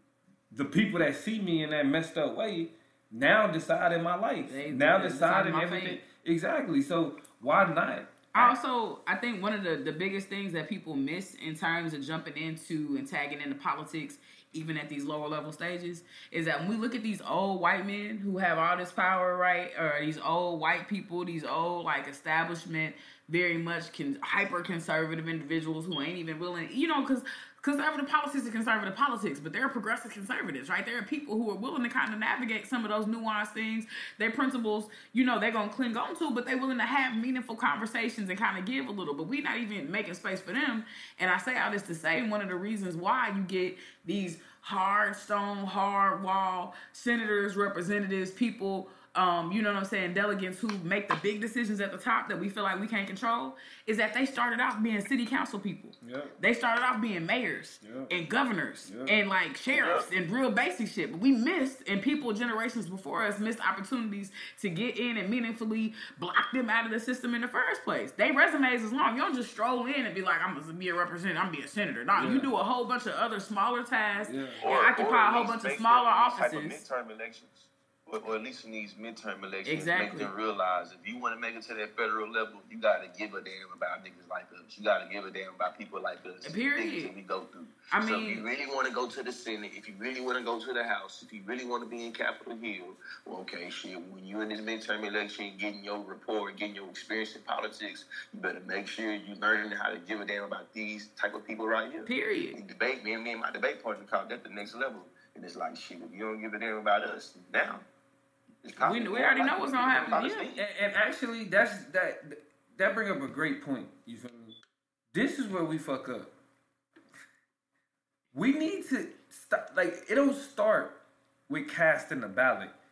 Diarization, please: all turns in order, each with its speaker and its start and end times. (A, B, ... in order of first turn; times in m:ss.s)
0:00.5-0:08.6 A
0:04.5-0:06.0 B
0:08.3-1:16.8 B
0:56.0-0:56.4 A
0:57.8-0:58.1 A
0:58.9-0:59.2 A
0:59.7-1:00.1 C
1:12.2-1:12.5 A
1:14.2-1:14.6 A
1:14.6-1:47.9 C
1:19.6-1:20.3 B
1:26.4-1:27.1 B
1:27.9-1:28.4 B
1:42.1-1:42.6 B
1:48.6-1:50.6 C
1:48.8-1:50.5 B
1:50.6-1:54.6 A
1:55.1-1:56.3 A
1:58.3-2:01.0 A
2:01.5-2:02.7 A